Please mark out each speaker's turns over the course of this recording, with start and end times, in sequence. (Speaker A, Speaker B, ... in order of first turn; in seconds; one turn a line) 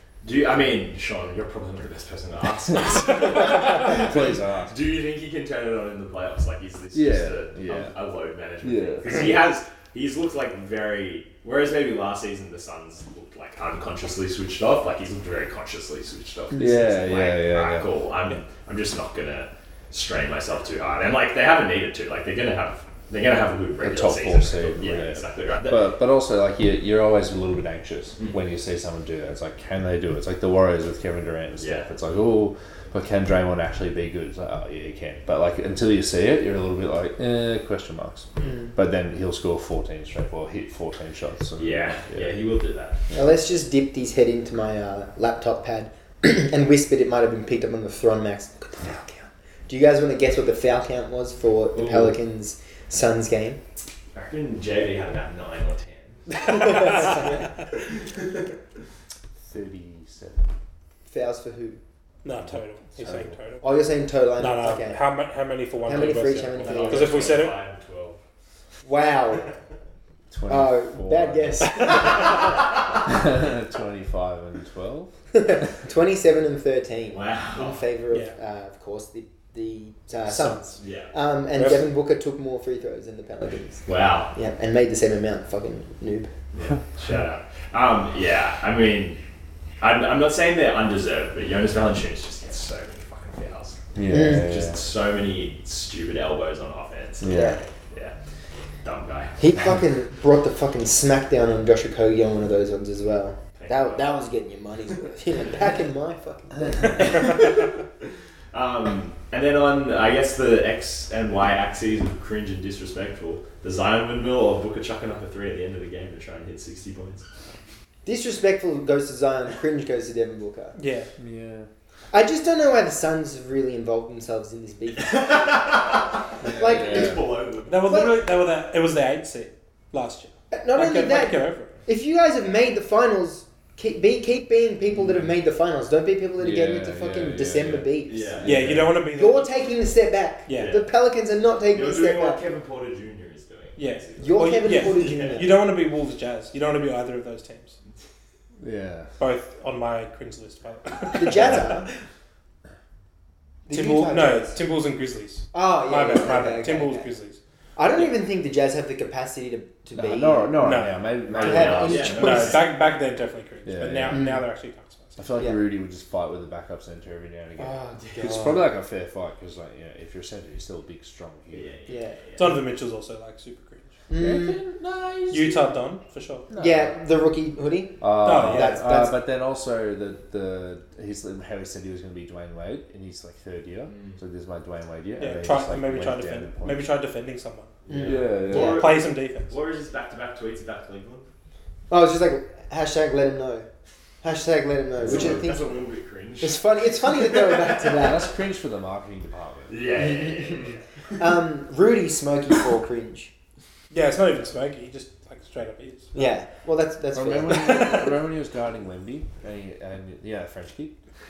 Speaker A: 0.2-26.0
Speaker B: 3.3-4.8
Speaker B: 6.9-8.0
Speaker B: 8.6-9.5
Speaker C: 16.5-16.9
Speaker B: 16.6-17.9
Speaker B: 23.8-42.4
Speaker A: 31.6-31.9
Speaker A: 41.6-43.0
Speaker C: 43.1-53.6
Speaker A: 51.8-52.1
Speaker A: 54.1-57.3
Speaker C: 56.5-57.3
Speaker D: 56.5-57.2
Speaker B: 59.5-60.5
Speaker C: 61.1-61.8
Speaker D: 62.2-63.8
Speaker B: 62.4-63.4
Speaker C: 63.6-65.0
Speaker D: 64.4-67.6
Speaker C: 65.8-67.4
Speaker A: 65.9-68.2
Speaker C: 68.8-69.5
Speaker B: 70.3-72.3
Speaker C: 70.5-72.7
Speaker B: 73.0-75.1
Speaker C: 75.3-86.3
Speaker A: 77.1-77.8
Speaker A: 80.8-81.1
Speaker D: 81.5-81.9
Speaker A: 83.9-84.3
Speaker A: 86.5-89.2
Speaker A: 89.8-98.2
Speaker B: 94.0-94.8
Speaker C: 94.1-94.5
Speaker B: 97.2-97.6
Speaker C: 97.3-97.6
Speaker A: 98.8-99.4
Speaker C: 99.4-107.6
Speaker A: 103.5-104.1
Speaker A: 107.0-107.6
Speaker A: 108.5-117.2
Speaker C: 118.0-120.8
Speaker D: 120.8-121.1
Speaker B: 121.2-121.7
Speaker C: 122.1-128.2
Speaker A: 125.0-127.9
Speaker B: 126.4-127.3
Speaker D: 127.7-131.8
Speaker C: 130.5-142.4
Speaker B: 134.9-135.3
Speaker B: 136.4-138.9
Speaker A: 138.1-138.8
Speaker D: 138.4-139.5
Speaker D: 140.5-140.8
Speaker A: 140.6-140.9
Speaker A: 141.7-145.4
Speaker D: 143.8-147.8
Speaker C: 144.2-145.6
Speaker B: 148.6-149.1
Speaker D: 149.2-151.7
Speaker C: 151.1-151.9
Speaker C: 153.7-154.6
Speaker D: 153.7-157.4
Speaker C: 155.5-157.1
Speaker C: 157.8-160.6
Speaker B: 159.9-162.4
Speaker D: 160.6-161.1
Speaker A: 161.3-162.7
Speaker C: 161.3-162.7
Speaker D: 162.1-165.2
Speaker B: 163.7-164.2
Speaker C: 164.1-164.5
Speaker B: 165.2-171.8
Speaker C: 165.4-165.6
Speaker C: 167.6-168.6
Speaker A: 171.5-172.5
Speaker C: 171.9-172.5
Speaker D: 172.4-173.9
Speaker C: 174.1-174.6
Speaker B: 174.1-175.7
Speaker D: 175.3-176.5
Speaker B: 176.5-176.9
Speaker C: 176.6-179.2
Speaker B: 178.0-186.9
Speaker D: 178.2-178.8
Speaker A: 183.9-184.2
Speaker D: 185.2-187.7
Speaker A: 187.9-191.3
Speaker C: 187.9-189.0
Speaker B: 188.0-188.8
Speaker D: 188.5-189.6
Speaker C: 191.9-193.7
Speaker C: 194.2-195.7
Speaker B: 195.0-195.6
Speaker A: 195.0-197.9
Speaker C: 196.4-198.3
Speaker B: 197.9-199.9
Speaker A: 199.7-200.8
Speaker C: 199.9-203.3
Speaker D: 203.9-206.2
Speaker C: 206.1-208.1
Speaker B: 207.1-211.0